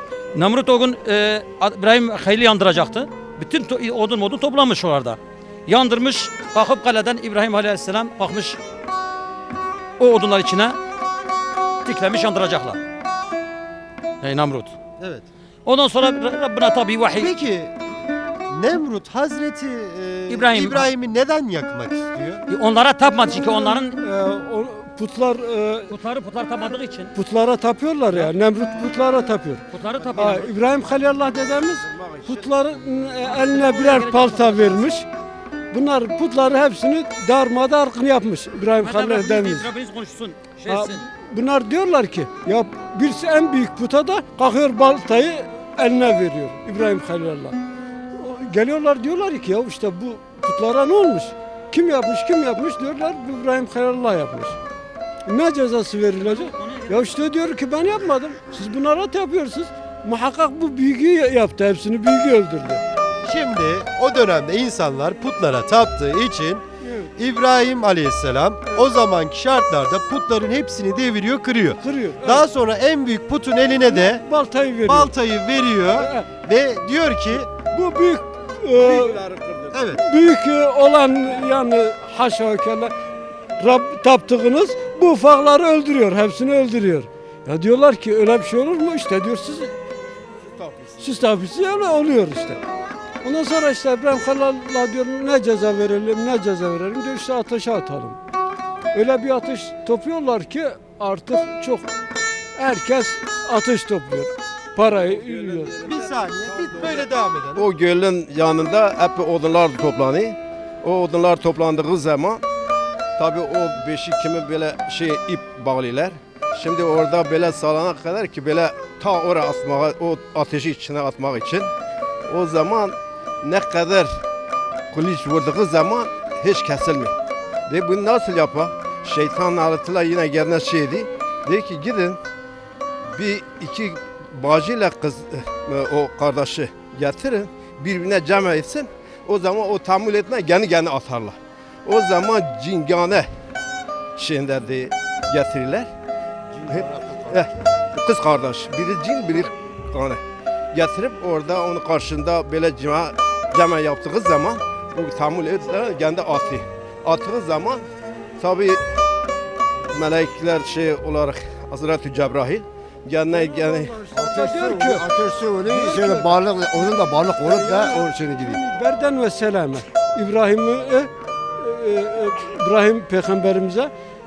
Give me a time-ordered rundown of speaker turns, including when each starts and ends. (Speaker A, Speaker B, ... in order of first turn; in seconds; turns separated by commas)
Speaker A: 0.3-8.6, Speaker A: 10.0-10.8, Speaker A: 11.8-12.8, Speaker A: 14.2-14.7, Speaker B: 15.0-15.3, Speaker A: 15.7-17.3, Speaker B: 17.1-17.8, Speaker B: 18.5-22.4, Speaker A: 20.3-20.9, Speaker A: 22.5-23.9, Speaker C: 23.4-25.9, Speaker A: 25.9-27.1, Speaker C: 27.1-35.1, Speaker A: 29.7-30.4, Speaker D: 29.9-30.5, Speaker D: 31.8-32.5, Speaker A: 33.3-35.0, Speaker C: 35.7-39.7, Speaker A: 38.8-41.0, Speaker C: 40.7-47.6, Speaker C: 48.1-54.6, Speaker C: 55.2-62.8, Speaker A: 56.1-57.2, Speaker B: 63.2-66.6, Speaker C: 66.8-67.1, Speaker B: 67.2-74.2, Speaker C: 71.8-72.5, Speaker C: 73.8-75.1, Speaker B: 74.8-77.5, Speaker C: 76.0-76.3, Speaker C: 77.6-79.2, Speaker D: 78.8-79.8, Speaker B: 79.7-80.0, Speaker C: 79.9-82.9, Speaker C: 83.6-89.7, Speaker D: 90.5-91.0, Speaker C: 91.0-92.6, Speaker C: 93.2-98.2, Speaker C: 98.9-101.9, Speaker C: 102.5-105.7, Speaker D: 105.3-112.4, Speaker B: 105.8-107.7, Speaker D: 113.2-121.7, Speaker D: 122.3-124.1, Speaker D: 124.9-127.1, Speaker D: 127.7-132.2, Speaker D: 133.1-143.3, Speaker D: 144.2-145.9, Speaker D: 146.7-150.2, Speaker D: 150.7-157.8, Speaker D: 158.4-158.8, Speaker D: 159.9-164.0, Speaker C: 163.3-165.1, Speaker E: 164.3-168.6, Speaker C: 165.7-166.3, Speaker C: 167.4-173.9